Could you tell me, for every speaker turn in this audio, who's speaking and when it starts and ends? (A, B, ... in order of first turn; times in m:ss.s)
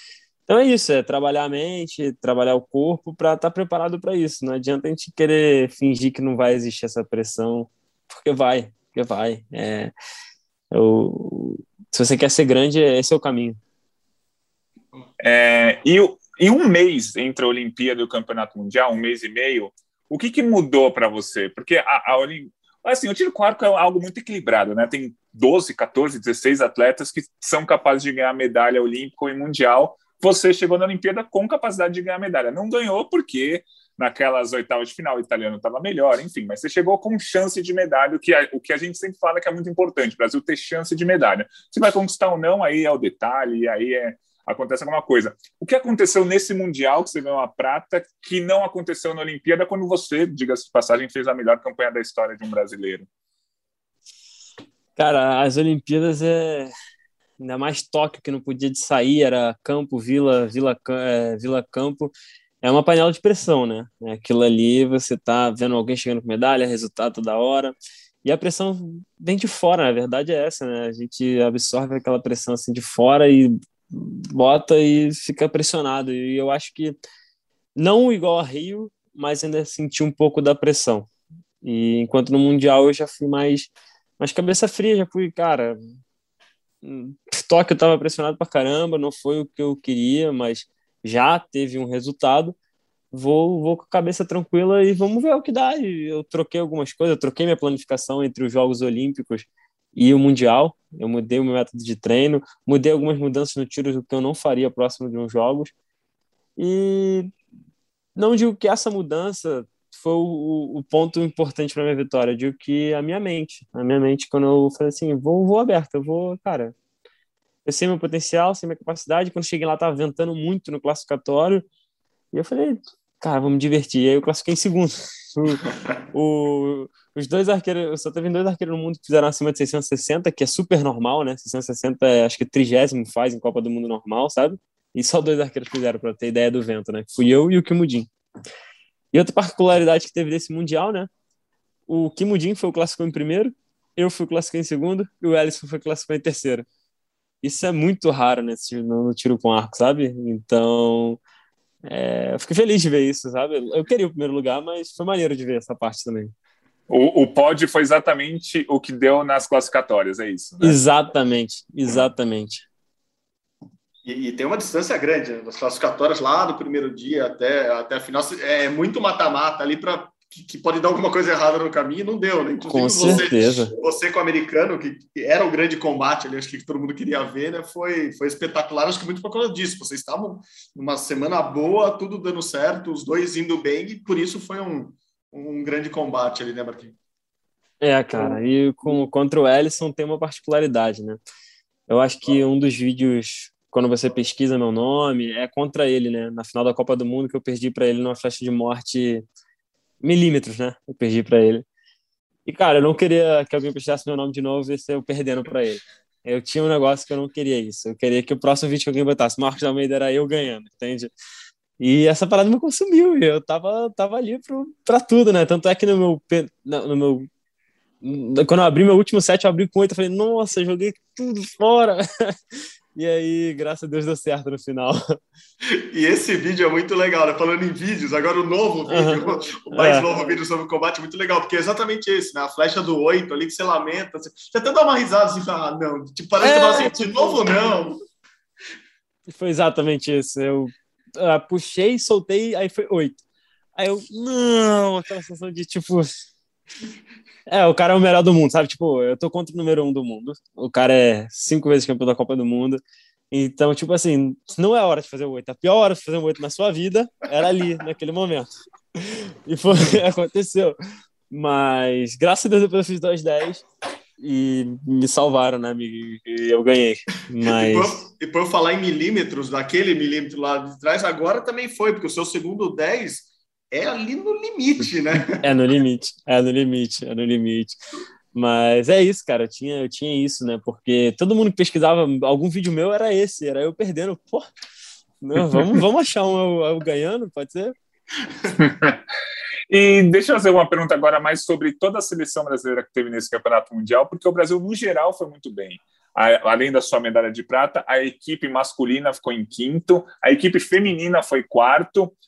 0:00.5-0:09.9 A
0:10.7-0:13.6 A
0:15.2-0:53.1 B
0:55.0-0:56.7 A
0:57.4-1:17.0 A
1:17.8-1:21.1 A
1:21.6-1:25.8 A
1:26.8-1:32.6 A
1:33.1-1:45.7 A
1:46.6-1:47.3 A
1:48.2-1:56.7 A
1:57.6-2:01.6 A
2:02.3-2:18.1 A
2:19.1-2:21.1 A
2:21.9-2:26.7 A
2:27.4-2:31.2 A
2:31.8-2:36.3 A
2:36.9-2:40.8 B
2:40.6-2:42.6 A
2:44.0-3:06.9 C
2:52.7-2:53.7 A
3:07.8-3:11.2 A
3:08.1-3:09.0 C
3:11.9-3:19.2 A
3:20.0-3:21.6 A
3:22.4-3:31.1 A
3:31.8-3:37.3 A
3:38.0-3:45.2 A
3:45.7-3:58.0 C
3:48.9-3:50.1 A
3:56.4-3:57.5 A
3:59.3-4:03.2 A
4:03.8-4:06.1 A
4:07.5-4:20.8 A
4:21.3-4:23.6 A
4:24.2-4:28.0 A
4:27.4-4:35.4 C
4:35.4-4:37.8 A
4:38.3-4:44.5 A
4:45.2-4:47.8 A
4:48.6-4:49.0 B
4:49.7-5:02.1 B